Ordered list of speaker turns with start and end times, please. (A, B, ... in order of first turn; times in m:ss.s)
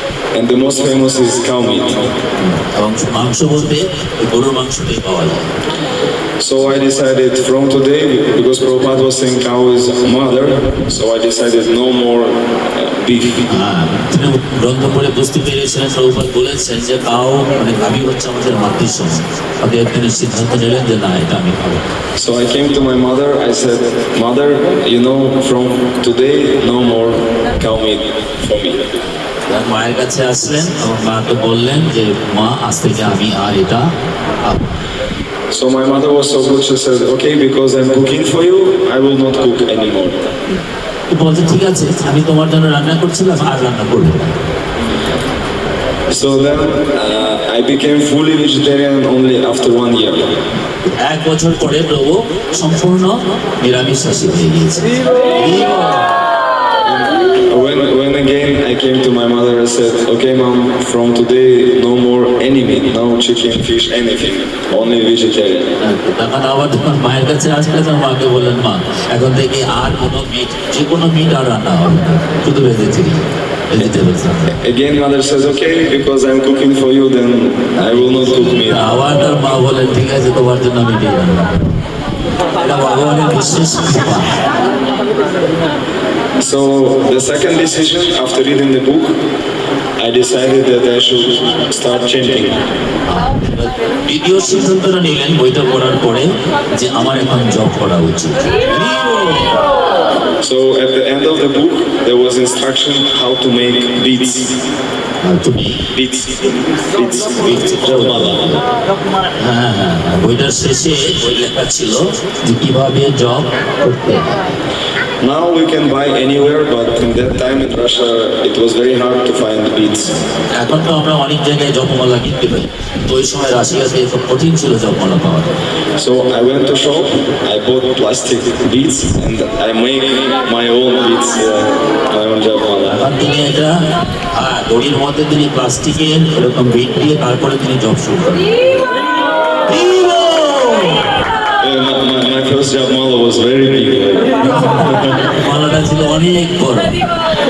0:00.3-0:02.1 A
0:02.4-0:05.5 B
0:06.4-0:13.5 A
0:13.5-0:21.8 B
0:22.2-0:28.9 A
0:29.5-0:34.8 B
0:35.5-0:40.2 A
0:41.1-0:44.3 B
0:46.1-0:50.4 A
0:50.8-0:56.0 B
0:56.8-1:05.7 A
1:05.8-1:14.6 B
1:14.6-1:19.1 A
1:17.8-1:21.8 B
1:22.6-1:24.4 B
1:26.4-1:29.2 A
1:30.0-1:32.6 A
1:33.1-1:39.6 B
1:40.4-1:44.6 A
1:45.2-1:45.8 B
1:45.9-1:48.5 A
1:47.4-1:48.6 B
1:49.3-1:54.6 B
1:55.2-2:00.1 A
2:00.5-2:05.5 B
2:06.0-2:13.1 A
2:12.9-2:18.6 B
2:19.7-2:21.0 B
2:21.6-2:25.1 A
2:24.6-2:27.0 B